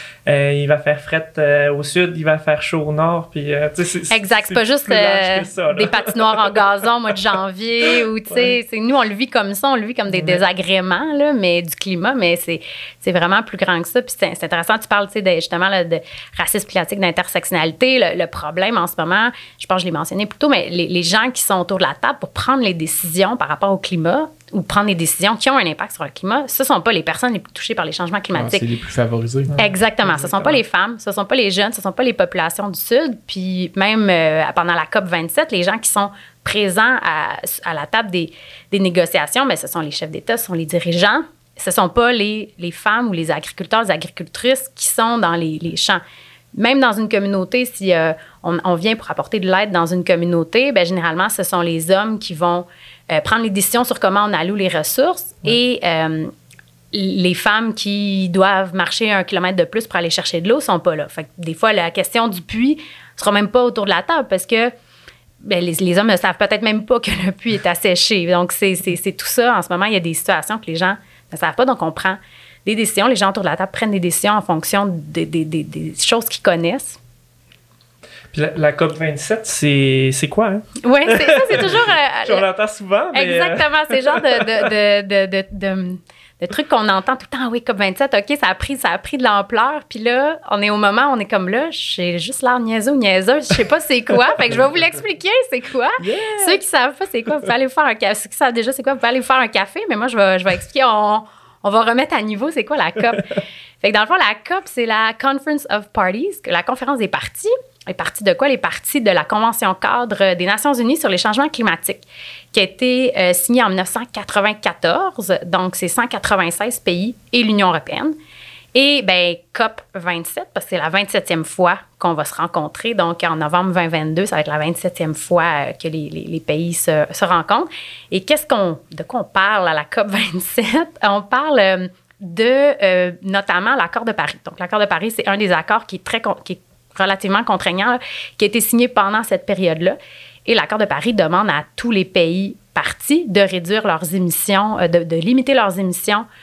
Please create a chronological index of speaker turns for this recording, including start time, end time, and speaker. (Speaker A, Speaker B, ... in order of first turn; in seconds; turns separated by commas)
Speaker A: 0.3-6.5, Speaker B: 4.1-28.7, Speaker A: 10.1-10.4, Speaker C: 28.3-30.5, Speaker B: 29.6-46.0, Speaker B: 46.5-56.3, Speaker B: 56.9-64.7, Speaker B: 65.4-77.0, Speaker A: 78.3-84.5, Speaker B: 80.8-82.5, Speaker B: 83.1-118.2, Speaker A: 96.0-96.5, Speaker B: 118.7-146.2